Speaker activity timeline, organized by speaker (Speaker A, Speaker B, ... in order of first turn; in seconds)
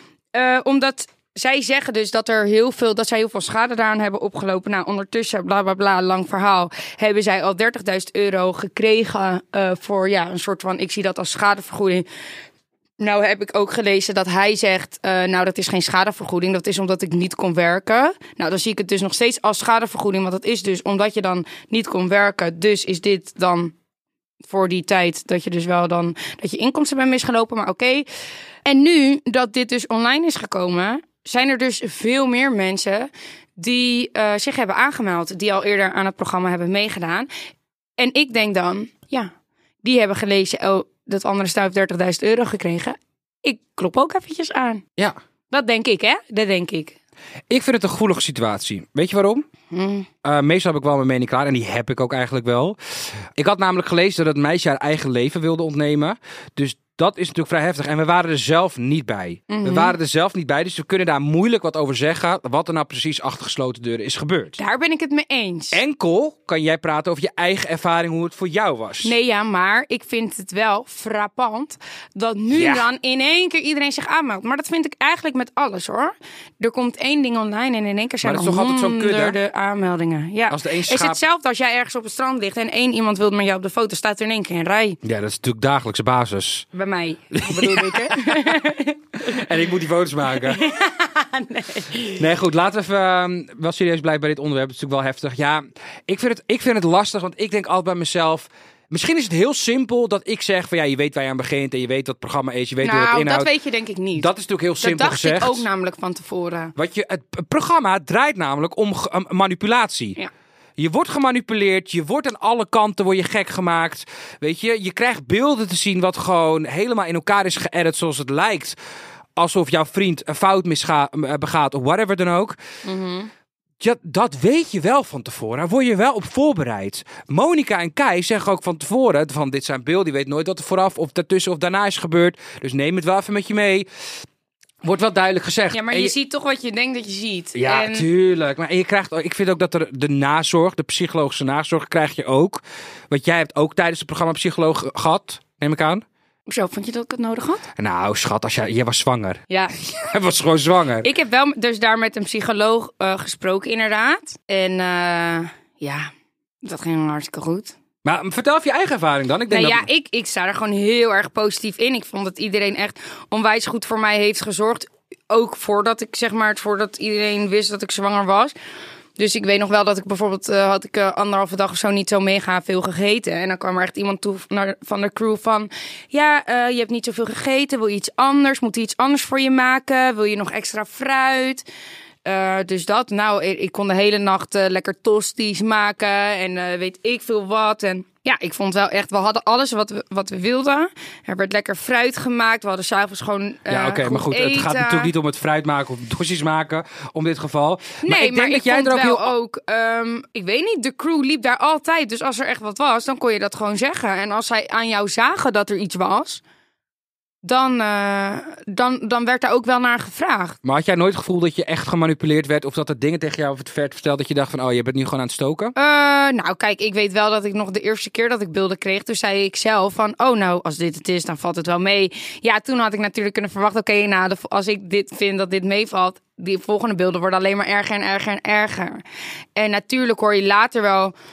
Speaker A: 0.3-12.1, 13.0-23.7, 24.4-28.1, 28.7-37.3, 38.0-39.3, 39.8-44.8, 45.5-47.0, 49.7-50.1, 59.5-60.0, 64.6-65.8, 69.0-85.0, 86.7-89.4, 90.5-92.2, 102.8-104.3, 104.8-106.7, 122.8-123.3, 135.7-138.1, 146.5-147.7, 149.5-149.8, 151.0-157.8, 159.5-168.5, 169.2-181.7, 182.2-195.1, 198.0-206.4, 207.4-210.6, 215.8-229.0, 229.6-231.2
Speaker B: 47.5-49.5, 50.2-64.6, 65.7-69.1, 72.5-72.9, 78.2-79.4, 80.5-81.2, 85.0-86.7, 87.3-88.7, 89.2-90.6, 92.2-103.5, 104.2-105.7, 106.8-110.2, 110.8-118.8, 119.4-122.6, 123.8-133.9, 134.8-136.1, 137.6-146.0, 147.8-151.1, 158.0-159.9, 193.7-199.3, 210.6-215.7